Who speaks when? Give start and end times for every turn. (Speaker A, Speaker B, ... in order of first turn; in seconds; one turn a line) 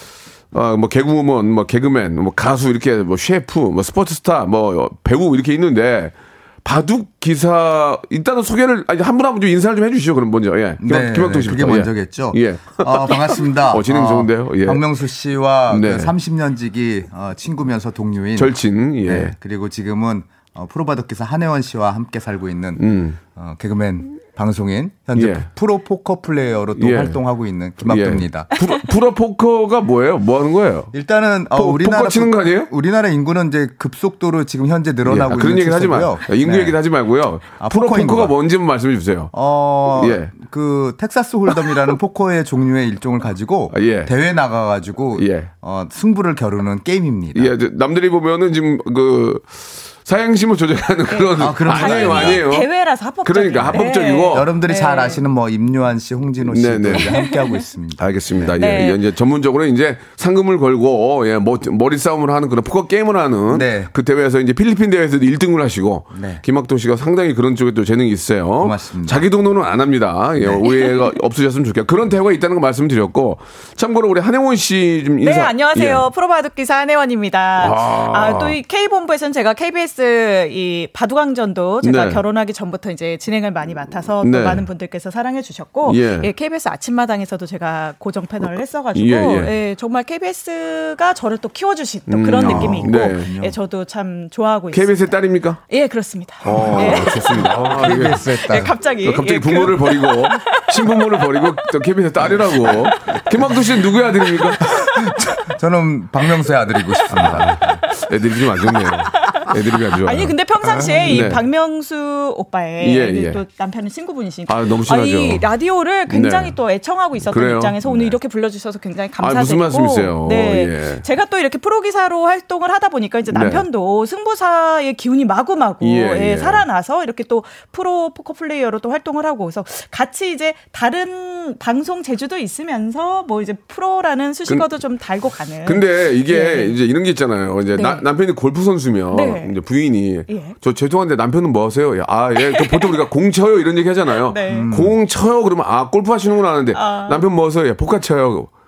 Speaker A: 0.5-14.8
Speaker B: 10.8-18.5
Speaker A: 15.7-16.1
Speaker A: 18.4-19.3
Speaker B: 19.0-28.5
Speaker A: 22.8-23.2
Speaker A: 25.1-25.5
Speaker A: 26.8-27.2
Speaker A: 27.8-30.9
Speaker B: 30.9-36.8
Speaker A: 31.5-32.7
Speaker A: 35.0-39.3
Speaker B: 37.6-38.3
Speaker B: 39.3-47.5
Speaker A: 39.9-40.3
Speaker A: 43.7-44.1
Speaker A: 45.2-45.5
Speaker A: 47.3-49.5
Speaker A: 50.0-52.7
Speaker C: 51.1-55.2
Speaker B: 51.4-52.4
Speaker A: 53.2-54.5
Speaker B: 53.7-58.5
Speaker A: 56.4-57.1
Speaker C: 57.0-57.6
Speaker A: 58.0-76.0
Speaker C: 58.6-59.0
Speaker B: 63.5-63.9
Speaker B: 66.1-66.4
Speaker B: 68.6-69.2
Speaker C: 75.2-95.0
Speaker A: 77.6-78.5
Speaker A: 81.8-82.2
Speaker A: 84.2-84.6
Speaker A: 85.8-86.3
Speaker A: 88.9-89.5
Speaker A: 92.1-93.3
Speaker B: 92.3-93.5
Speaker A: 94.7-95.6
Speaker C: 95.7-97.5
Speaker A: 96.4-98.2
Speaker B: 96.4-98.7
Speaker C: 98.4-101.7
Speaker A: 99.0-104.6
Speaker C: 102.3-105.3
Speaker B: 104.9-107.5
Speaker C: 107.0-136.7
Speaker A: 107.1-110.3
Speaker B: 110.8-111.2
Speaker A: 111.1-111.4
Speaker A: 112.8-113.4
Speaker A: 114.5-115.5
Speaker A: 116.1-116.5
Speaker A: 117.3-118.2
Speaker A: 119.2-121.0
Speaker A: 123.3-123.6
Speaker A: 125.8-126.6
Speaker A: 135.6-148.5
Speaker C: 137.7-138.0
Speaker C: 139.1-139.5
Speaker C: 140.3-140.6
Speaker C: 142.4-143.0
Speaker C: 144.2-144.7
Speaker B: 144.5-144.9
Speaker C: 146.7-147.2